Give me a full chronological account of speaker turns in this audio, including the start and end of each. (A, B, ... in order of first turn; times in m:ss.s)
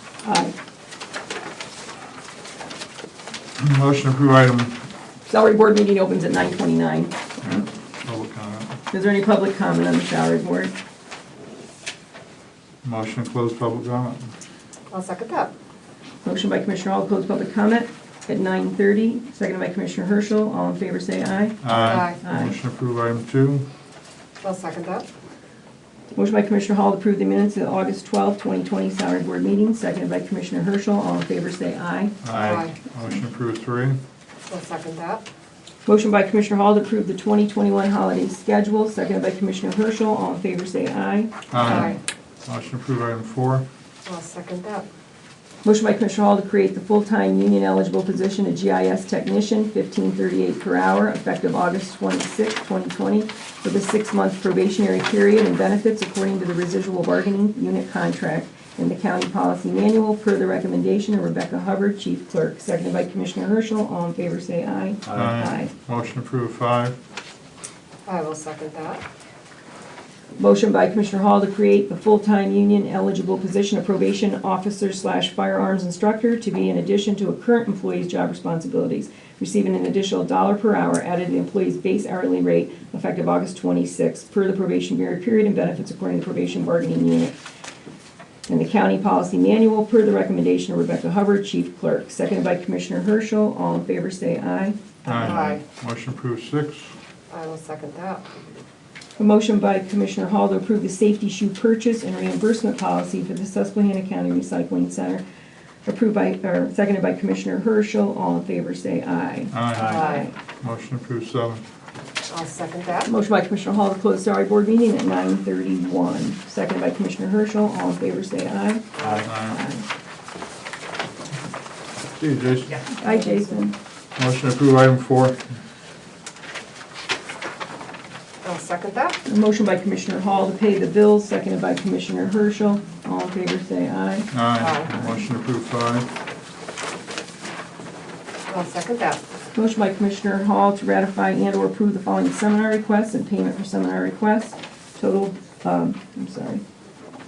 0:00.2-0:00.5 A
0:03.6-0:04.8 B
0:05.3-0:07.6 A
0:07.4-0:08.8 B
0:08.9-0:10.7 A
0:12.8-0:14.3 B
0:14.9-0:15.5 C
0:16.2-0:22.6 A
0:21.6-0:23.7 B
0:21.8-0:22.2 C
0:24.4-0:25.1 C
0:26.2-0:32.2 A
0:32.2-0:34.0 B
0:32.3-0:32.8 C
0:34.5-0:35.3 C
0:35.9-0:42.0 A
0:41.5-0:43.7 B
0:41.6-0:42.0 C
0:44.1-0:44.8 C
0:45.6-1:05.7 A
1:05.1-1:07.0 B
1:08.1-1:09.0 C
1:10.4-1:27.4 A
1:28.5-1:35.4 A
1:35.0-1:36.9 B
1:35.2-1:35.6 C
1:37.3-1:38.2 C
1:39.2-1:45.2 A
1:45.9-1:50.3 A
1:49.5-1:50.1 B
1:49.8-1:50.3 C
1:50.6-1:51.6 B
1:52.3-1:53.1 C
1:53.0-1:59.8 A
1:59.0-1:59.2 C
1:59.2-1:59.6 B
2:02.1-2:02.9 B
2:03.0-2:03.8 A
2:03.0-2:03.6 C
2:04.2-2:05.6 B
2:08.4-2:09.2 C
2:09.3-2:14.3 A
2:14.3-2:16.1 B
2:14.6-2:14.9 C
2:18.5-2:19.2 C
2:19.6-2:26.6 A